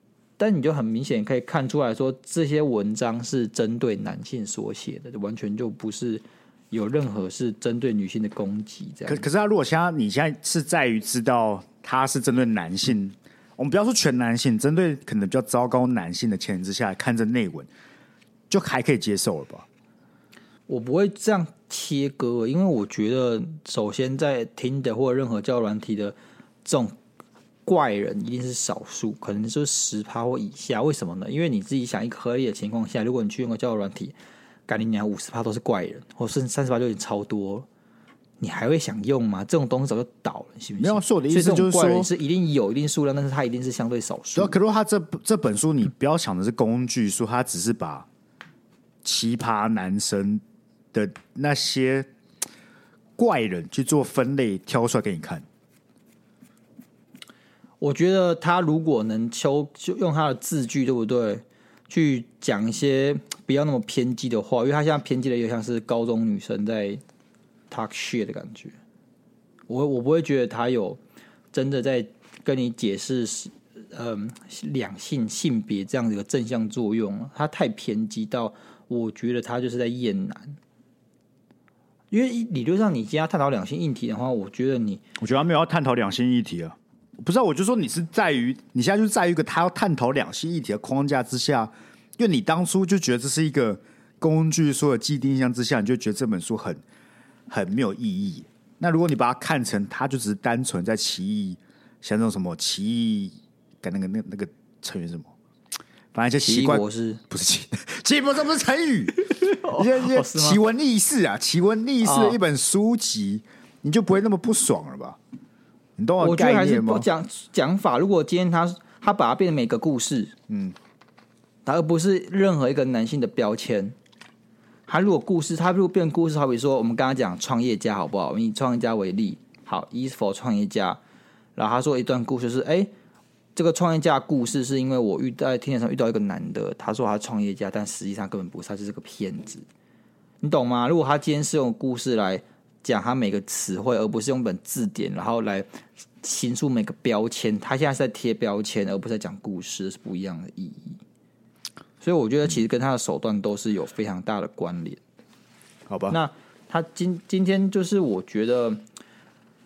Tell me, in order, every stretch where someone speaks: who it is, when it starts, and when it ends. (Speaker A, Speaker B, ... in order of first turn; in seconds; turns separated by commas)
Speaker A: 0.4-9.2, Speaker B: 9.1-17.7, Speaker B: 18.5-19.6, Speaker A: 20.7-26.9, Speaker A: 27.6-34.1, Speaker A: 34.7-37.6, Speaker A: 38.4-44.6, Speaker B: 40.8-42.1, Speaker B: 44.4-48.1, Speaker B: 49.0-50.4, Speaker B: 50.9-52.1, Speaker B: 53.2-55.4, Speaker A: 57.8-67.0, Speaker A: 67.7-68.8, Speaker A: 69.7-71.0, Speaker A: 71.5-80.6, Speaker A: 82.1-85.0, Speaker B: 85.2-96.8, Speaker B: 97.5-105.3, Speaker B: 106.1-115.2, Speaker A: 106.4-107.2, Speaker A: 109.3-110.6, Speaker A: 112.0-112.4, Speaker B: 116.0-117.1, Speaker A: 116.2-120.3, Speaker B: 120.5-120.8, Speaker A: 121.7-124.0, Speaker A: 124.9-131.0, Speaker A: 131.6-132.9, Speaker A: 133.6-139.6, Speaker A: 140.4-145.7, Speaker A: 146.2-151.0, Speaker A: 152.0-155.0, Speaker B: 155.9-156.2, Speaker A: 156.1-158.8